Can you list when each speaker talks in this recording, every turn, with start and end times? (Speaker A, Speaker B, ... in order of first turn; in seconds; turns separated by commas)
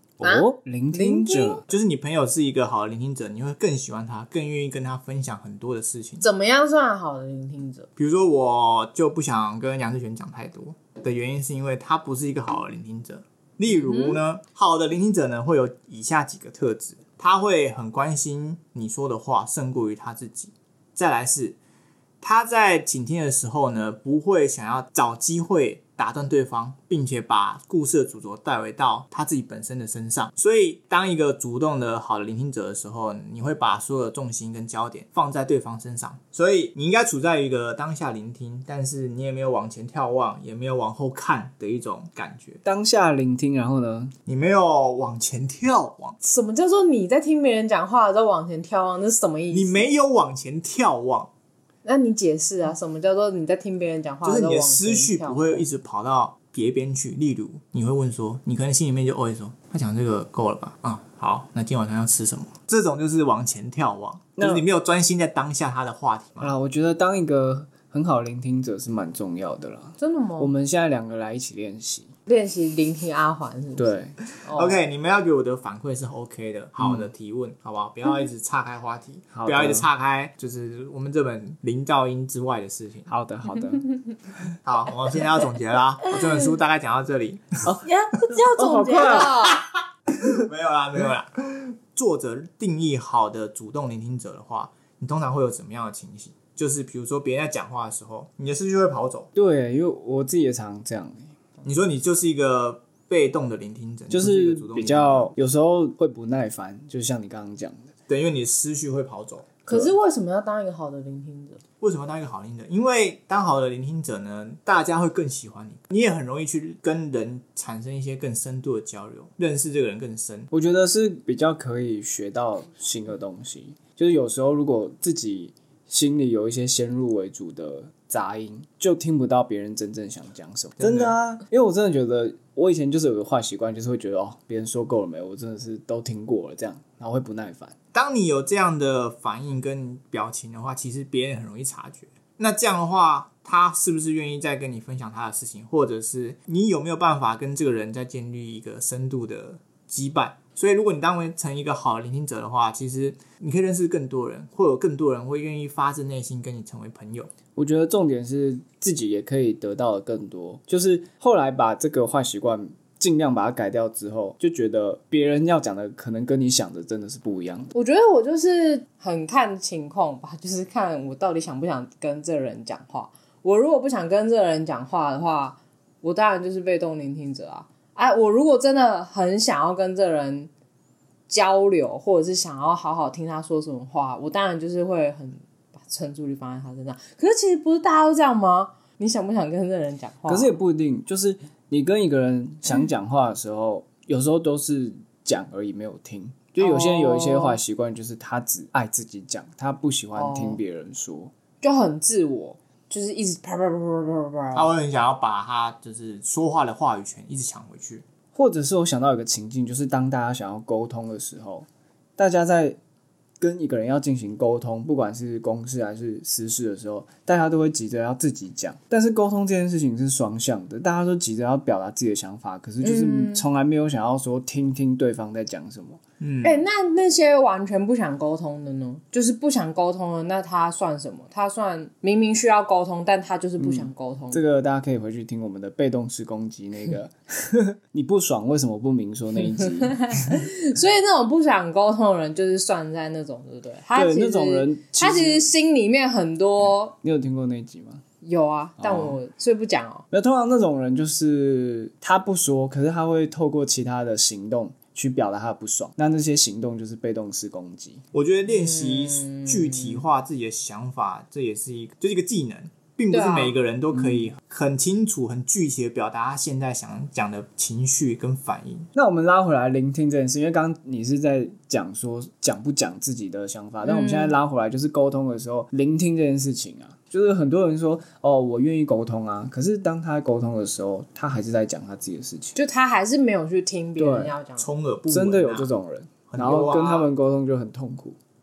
Speaker A: 0.2-1.6, Speaker B: 0.2-1.6, Speaker C: 1.7-6.2, Speaker B: 6.2-7.9, Speaker C: 8.0-21.6, Speaker B: 13.7-14.2, Speaker C: 22.2-42.6, Speaker A: 42.6-44.1, Speaker C: 44.3-46.2, Speaker B: 46.2-49.9, Speaker C: 49.5-51.3, Speaker B: 51.8-55.6, Speaker C: 54.2-66.5, Speaker A: 64.4-64.6, Speaker A: 66.4-72.1, Speaker B: 70.0-70.5, Speaker B: 72.3-74.8, Speaker A: 73.8-74.1, Speaker C: 74.5-83.1, Speaker A: 76.8-77.1, Speaker A: 79.3-79.9, Speaker A: 83.1-83.8, Speaker C: 84.6-87.7, Speaker A: 87.6-89.4, Speaker B: 87.8-89.6, Speaker C: 90.1-99.3, Speaker A: 99.3-101.3, Speaker C: 101.6-105.3, Speaker A: 104.1-107.9, Speaker C: 108.1-109.5, Speaker B: 109.6-111.6, Speaker C: 111.8-120.5, Speaker A: 120.5-137.7, Speaker C: 130.8-131.1, Speaker C: 137.9-157.3, Speaker A: 157.6-167.7, Speaker B: 167.7-180.5, Speaker B: 181.3-190.6, Speaker A: 190.3-201.3, Speaker B: 196.6-197.6, Speaker B: 200.1-200.6, Speaker B: 201.6-204.7, Speaker C: 204.5-208.0, Speaker A: 208.3-212.8, Speaker A: 213.4-226.0, Speaker B: 222.8-223.4, Speaker C: 226.2-226.6, Speaker B: 226.4-234.4, Speaker A: 233.6-240.4, Speaker B: 239.5-246.9, Speaker A: 243.9-245.5, Speaker A: 247.0-248.0, Speaker B: 248.2-250.0, Speaker A: 248.8-249.2, Speaker A: 250.1-258.0, Speaker C: 258.1-268.9, Speaker B: 258.5-260.0, Speaker B: 263.1-263.6, Speaker A: 263.9-264.3, Speaker A: 268.9-282.6, Speaker B: 273.8-274.4, Speaker B: 282.5-284.7, Speaker A: 284.0-284.3, Speaker C: 284.6-285.7, Speaker A: 285.1-288.2, Speaker C: 286.3-287.1